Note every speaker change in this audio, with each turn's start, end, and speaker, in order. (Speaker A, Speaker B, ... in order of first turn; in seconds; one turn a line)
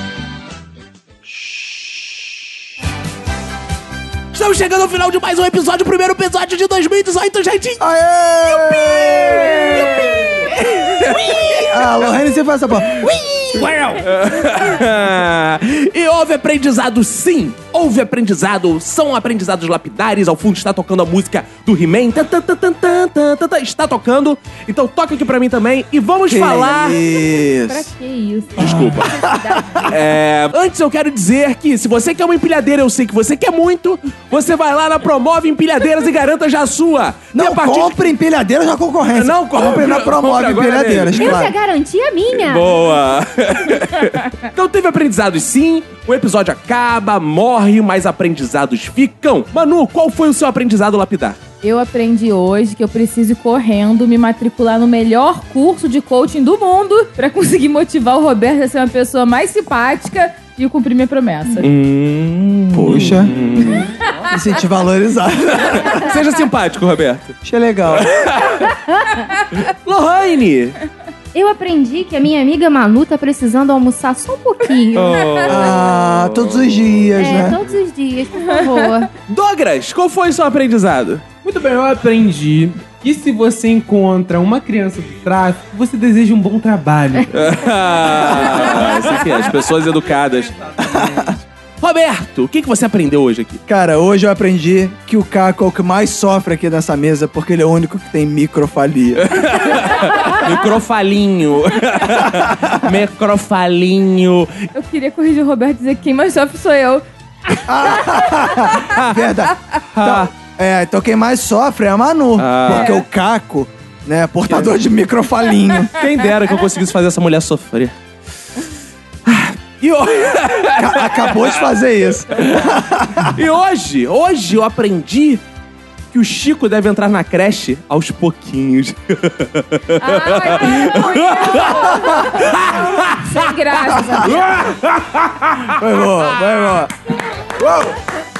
Speaker A: 4.3-7.9
Speaker B: 7.8-13.8
Speaker A: 8.4-12.1
Speaker A: 12.8-27.0
Speaker B: 26.3-27.9
Speaker C: 27.3-28.7
Speaker A: 28.6-29.1
Speaker B: 28.6-29.9
Speaker C: 29.2-29.9
Speaker A: 29.9-38.0
Speaker B: 37.3-41.5
Speaker A: 39.1-41.4
Speaker D: 41.1-42.8
Speaker A: 42.3-51.4
Speaker C: 51.6-61.7
Speaker A: 61.6-63.9
Speaker B: 62.7-66.0
Speaker A: 65.7-67.3
Speaker B: 67.4-68.1
Speaker A: 67.9-68.7
Speaker A: 69.5-70.8
Speaker D: 71.3-75.4
Speaker A: 74.9-77.0
Speaker B: 75.5-77.6
Speaker D: 77.2-79.1
Speaker C: 78.4-79.0
Speaker A: 79.3-81.2
Speaker E: 81.4-91.4
Speaker A: 87.3-90.5
Speaker B: 90.8-91.3
Speaker A: 91.8-93.6
Speaker B: 93.7-99.4
Speaker A: 99.2-104.7
Speaker B: 102.4-102.9
Speaker C: 104.7-107.0
Speaker B: 107.7-115.9
Speaker C: 107.9-108.7
Speaker A: 109.9-110.3
Speaker A: 112.4-112.9
Speaker C: 112.7-113.0
Speaker A: 115.9-117.9
Speaker A: 119.2-121.6
Speaker B: 120.7-123.4
Speaker A: 122.3-122.7
Speaker A: 123.3-125.4
Speaker A: 126.1-131.8
Speaker C: 130.0-134.6
Speaker B: 131.7-132.4
Speaker A: 132.3-133.4
Speaker A: 134.2-135.7
Speaker B: 135.7-136.9
Speaker B: 137.5-137.9